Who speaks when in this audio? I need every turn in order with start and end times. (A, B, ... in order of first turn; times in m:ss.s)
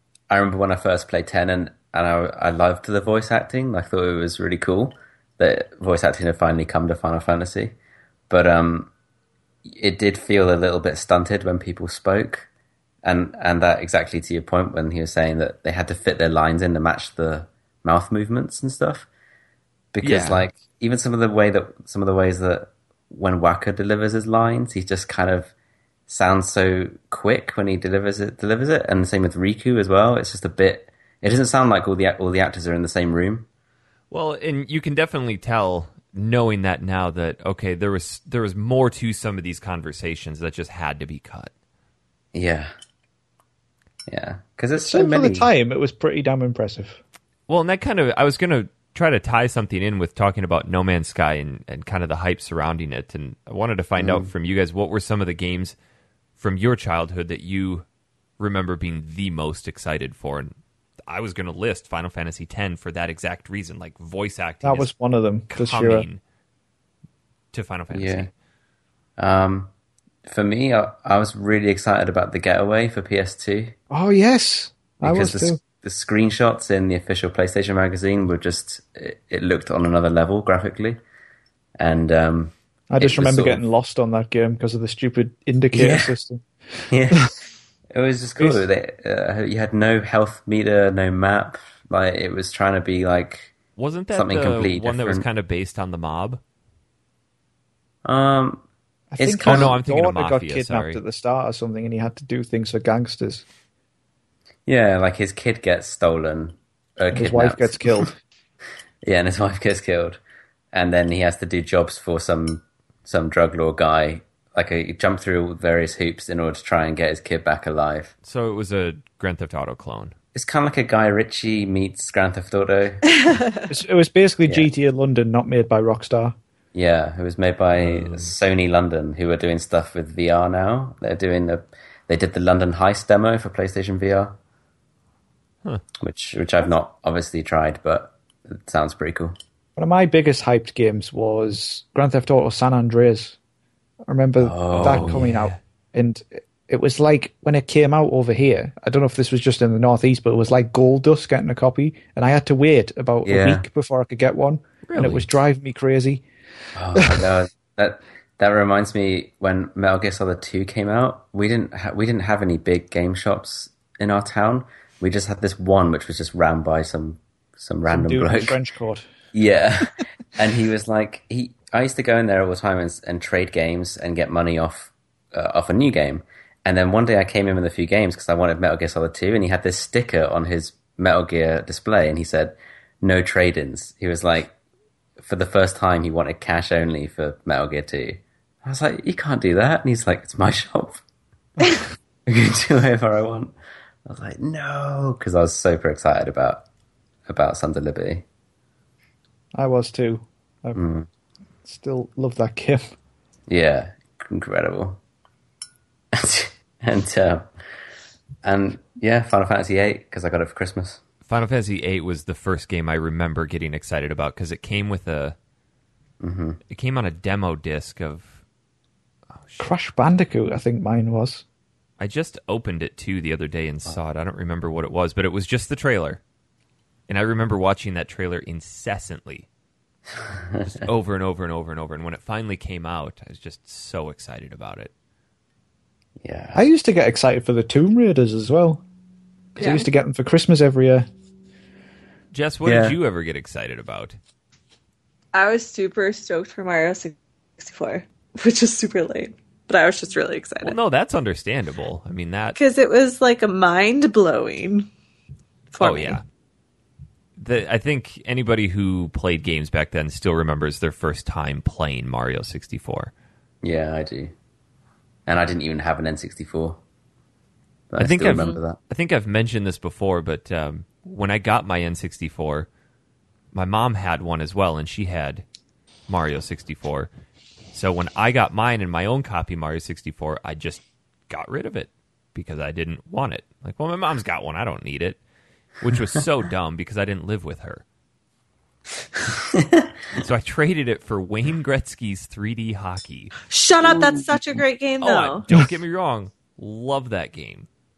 0:00.3-0:07.8 A
0:08.3-0:08.9 A
0:09.7-0:12.5 A
0:13.0-0:19.1 A
0:19.9-0:25.5 A
0:20.0-0:20.4 B
0:26.1-0:33.5 A
0:34.1-0:41.5 B
0:42.3-0:42.7 A
0:44.1-0:45.5 A
0:44.8-0:47.0 C
0:47.5-0:55.8 B
0:54.0-0:54.3 A
0:56.4-0:57.8 B
0:58.4-1:00.5 B
1:01.1-1:04.9 B
1:04.6-1:06.1 C
1:05.5-1:06.2 B
1:07.5-1:08.3 B
1:07.9-1:08.3 A
1:09.2-1:09.7 A
1:10.3-1:13.8 A
1:13.9-1:15.6 C
1:15.0-1:21.0 A
1:21.8-1:23.6 A
1:22.9-1:26.4 C
1:25.7-1:26.1 A
1:26.9-1:27.3 A
1:27.9-1:33.5 A
1:28.4-1:28.6 C
1:33.8-1:36.4 B
1:34.1-1:35.2 A
1:38.0-1:38.6 A
1:39.1-1:43.4 C
1:39.2-1:39.7 A
1:39.4-1:41.0 B
1:44.7-1:48.1 A
1:47.1-1:48.2 C
1:49.0-1:50.2 A
1:50.7-1:58.1 A
1:58.2-2:00.1 B
2:00.4-2:03.3 A
2:03.2-2:03.7 D
2:03.7-2:06.4 C
2:06.7-2:14.4 A
2:07.8-2:08.3 B
2:16.0-2:19.4 A
2:19.8-2:23.4 C
2:24.1-2:36.2 C
2:24.4-2:25.3 A
2:24.7-2:25.6 B
2:33.2-2:33.6 A
2:34.9-2:35.3 B
2:36.8-2:48.6 A
2:37.0-2:37.3 C
2:47.9-2:49.1 C
2:49.3-3:04.6 A
3:05.2-3:11.0 A
3:12.3-3:13.5 A
3:14.1-3:16.6 A
3:17.3-3:18.2 A
3:19.6-3:20.8 C
3:20.8-3:21.1 A
3:21.6-3:22.9 C
3:23.5-3:25.0 A
3:26.1-3:27.5 A
3:28.4-3:31.0 A
3:31.3-3:35.4 B
3:36.2-3:36.6 A
3:36.7-3:38.4 B
3:39.4-3:39.7 B
3:39.6-3:41.4 C
3:42.0-3:46.2 B
3:47.1-3:49.5 B
3:50.7-3:54.9 B
3:56.2-3:56.6 A
3:56.6-3:58.8 C
3:59.6-4:01.1 C
3:59.6-3:59.9 D
4:02.3-4:04.2 B
4:02.6-4:03.0 A
4:05.3-4:10.8 D
4:10.6-4:12.6 B
4:12.6-4:14.9 D
4:15.7-4:16.2 D
4:15.8-4:16.2 B
4:17.4-4:23.1 B
4:23.6-4:24.3 A
4:25.3-4:26.8 A
4:27.9-4:28.8 A
4:28.0-4:32.7 B
4:33.5-4:35.4 B
4:36.1-4:37.1 B
4:37.7-4:45.2 B
4:45.8-4:47.8 B
4:49.4-4:49.9 A
4:50.1-4:53.4 B
4:53.5-4:55.5 D
4:53.9-4:54.4 A
4:55.0-4:57.7 B